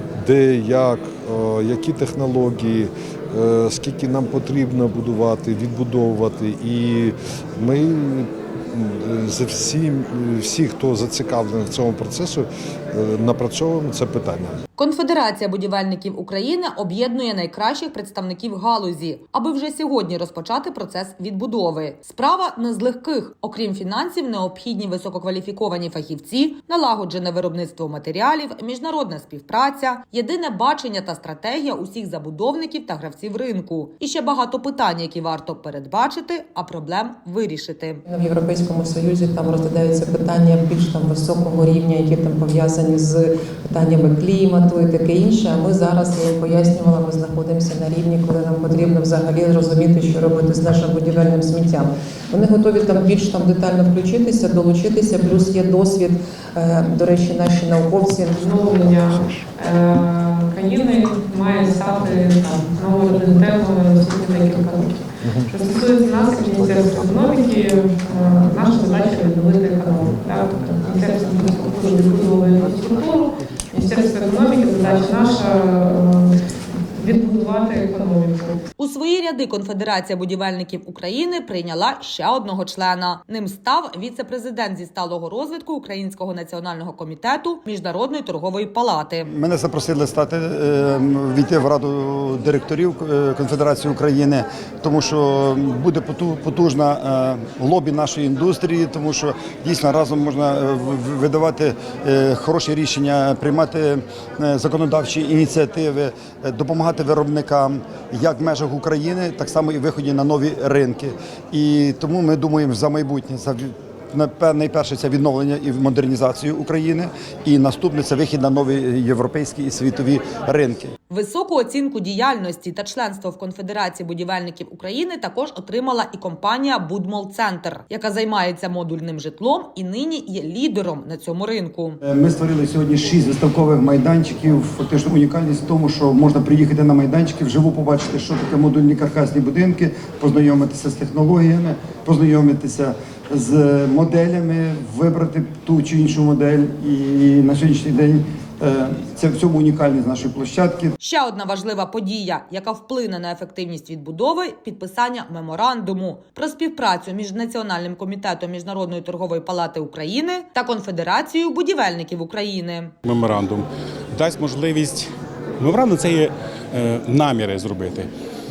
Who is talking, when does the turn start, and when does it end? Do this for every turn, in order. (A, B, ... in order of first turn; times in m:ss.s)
0:00.2-0:14.6 A
0:14.8-0:38.0 B
0:38.1-0:58.5 C
0:58.3-1:18.6 D
0:59.0-0:59.3 A
1:18.8-1:29.3 B
1:29.2-2:00.9 E
2:01.1-2:12.0 B
2:12.0-2:30.9 E
2:31.0-2:42.9 B
2:43.0-2:48.1 F